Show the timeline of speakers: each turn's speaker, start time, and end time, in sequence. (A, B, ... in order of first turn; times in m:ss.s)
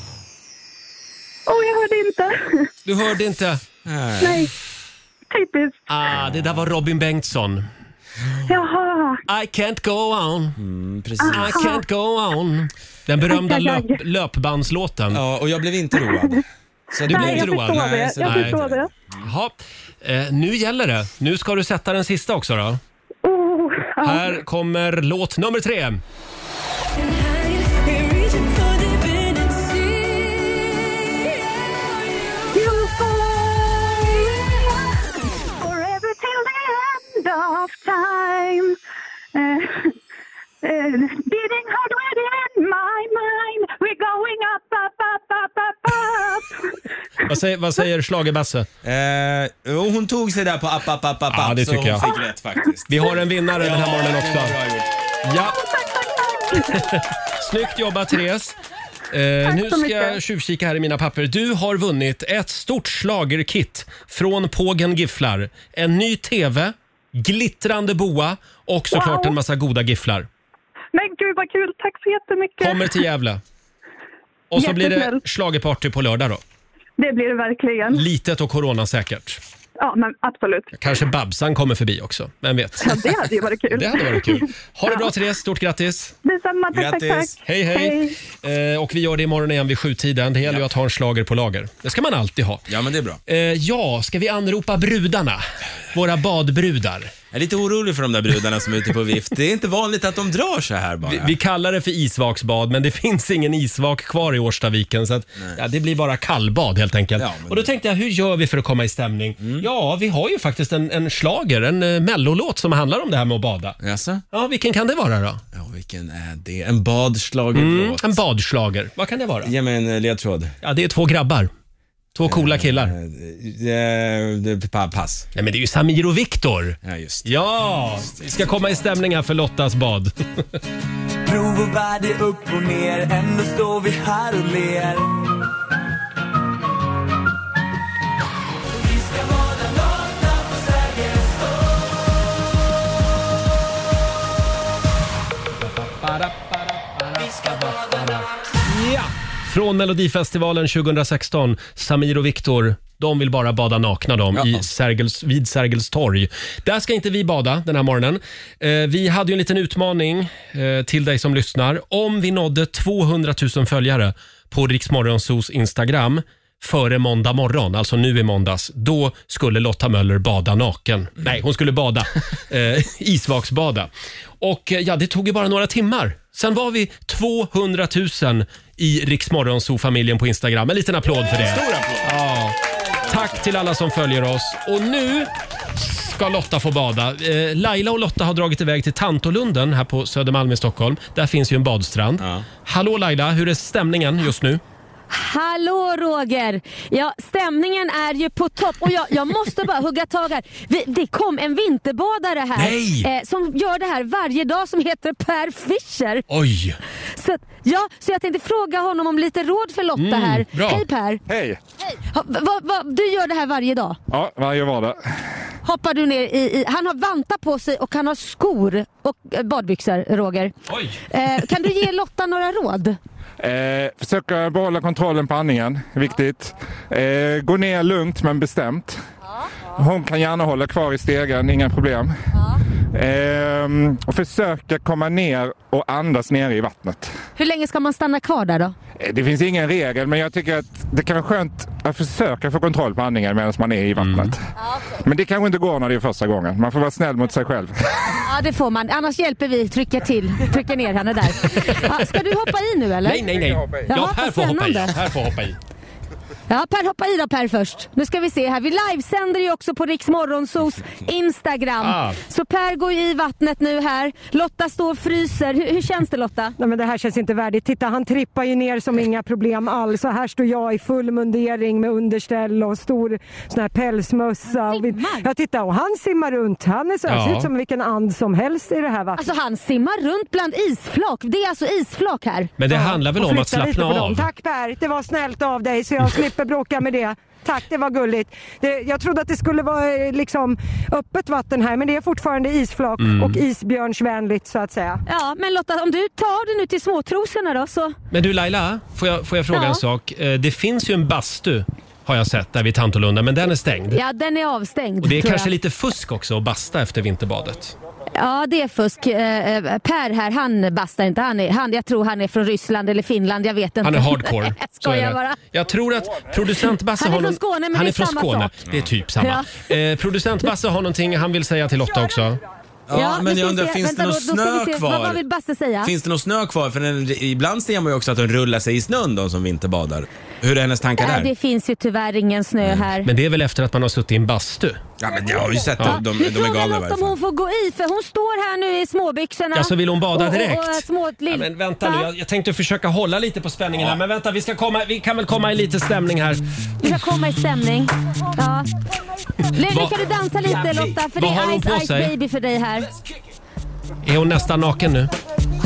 0:01.5-0:02.7 A
0:02.8-0:03.6 B
0:03.9-0:04.5 C
0:04.2-0:04.5 A
0:05.3-0:05.8 A
0:05.9-0:07.7 B
0:06.2-0:06.5 C
0:08.5-0:09.2 A
0:09.3-0:10.6 B
0:10.6-0:11.8 C
0:11.2-0:11.8 A
0:11.3-0:15.2 B
0:13.3-0:14.0 A
0:15.1-0:19.2 C
0:17.1-0:18.6 B
0:17.1-0:18.9 A
0:19.2-0:22.8 B
0:23.2-0:24.3 A
0:24.0-0:26.0 B
0:27.2-0:30.8 D
0:32.5-0:35.0 A
0:35.5-0:38.8 A
0:39.3-0:40.0 A
0:40.6-0:46.7 A
0:47.3-0:48.7 B
0:48.8-0:54.9 C
0:51.3-0:52.0 B
0:52.9-0:54.6 B
0:55.2-0:55.6 B
0:55.5-0:56.9 A
0:56.5-0:58.6 B
0:59.1-1:10.3 B
0:59.4-1:00.2 A
1:08.9-1:09.4 A
1:10.9-1:13.0 A
1:12.6-1:13.4 B
1:14.5-1:16.4 B
1:14.6-1:15.2 A
1:17.0-1:18.0 A
1:17.9-1:19.4 B
1:19.8-1:20.8 A
1:20.8-1:26.2 B
1:22.8-1:25.1 A
1:26.2-1:28.2 A
1:26.7-1:27.4 C
1:27.4-1:32.7 B
1:32.7-1:33.2 C
1:33.3-1:37.1 B
1:37.3-1:41.4 C
1:41.0-1:53.8 B
1:47.2-1:47.7 C
1:49.4-1:49.6 C
1:53.8-1:54.2 C
1:54.3-1:55.4 B
1:55.5-1:58.2 C
1:57.5-1:59.5 B
1:59.4-2:00.6 C
2:00.6-2:01.5 B
2:02.2-2:02.9 B
2:02.2-2:05.3 C
2:05.4-2:10.5 B
2:06.8-2:07.3 C
2:11.2-2:15.1 D
2:18.8-2:21.8 D
2:25.6-2:53.9 B
2:34.4-2:34.6 C
2:54.4-3:14.6 B
3:01.3-3:02.2 C
3:12.2-3:12.5 C
3:15.1-3:26.3 E
3:22.6-3:23.1 B
3:26.3-3:26.8 B
3:27.2-3:31.2 E
3:30.0-3:30.8 B
3:31.3-3:31.6 F
3:31.9-3:34.0 E
3:34.1-3:35.0 F
3:35.6-3:40.5 E
3:40.7-3:41.0 B
3:41.1-3:43.0 E
3:43.4-3:49.0 F
3:49.8-3:52.1 F
3:52.9-3:57.1 F
3:57.4-3:58.8 E
3:59.0-4:04.4 F
4:04.0-4:04.3 B
4:05.0-4:07.7 F
4:08.2-4:13.3 E
4:13.0-4:15.6 B
4:13.9-4:15.0 E
4:16.5-4:26.6 E
4:21.8-4:22.2 B
4:26.6-4:39.2 G
4:34.6-4:35.3 E
4:37.1-4:37.5 B
4:39.2-4:42.5 E
4:42.6-4:44.3 B
4:42.7-4:55.0 G
4:53.0-4:53.4 B
4:55.1-4:58.0 E
4:58.1-5:04.0 B
4:59.5-4:59.8 E
5:03.9-5:05.5 E
5:05.0-5:07.7 B
5:08.2-5:15.4 E
5:13.8-5:22.4 B
5:17.0-5:18.5 E
5:19.2-5:19.7 E
5:22.9-5:25.2 C
5:22.9-5:25.9 E
5:25.8-5:31.3 C
5:31.0-5:33.1 E
5:33.0-5:34.8 B
5:35.0-5:37.2 C
5:35.8-5:42.1 E
5:39.6-5:47.0 B
5:46.8-5:48.7 E
5:49.5-5:52.9 E
5:49.6-5:50.0 B
5:51.1-5:52.1 B
5:54.0-5:55.1 B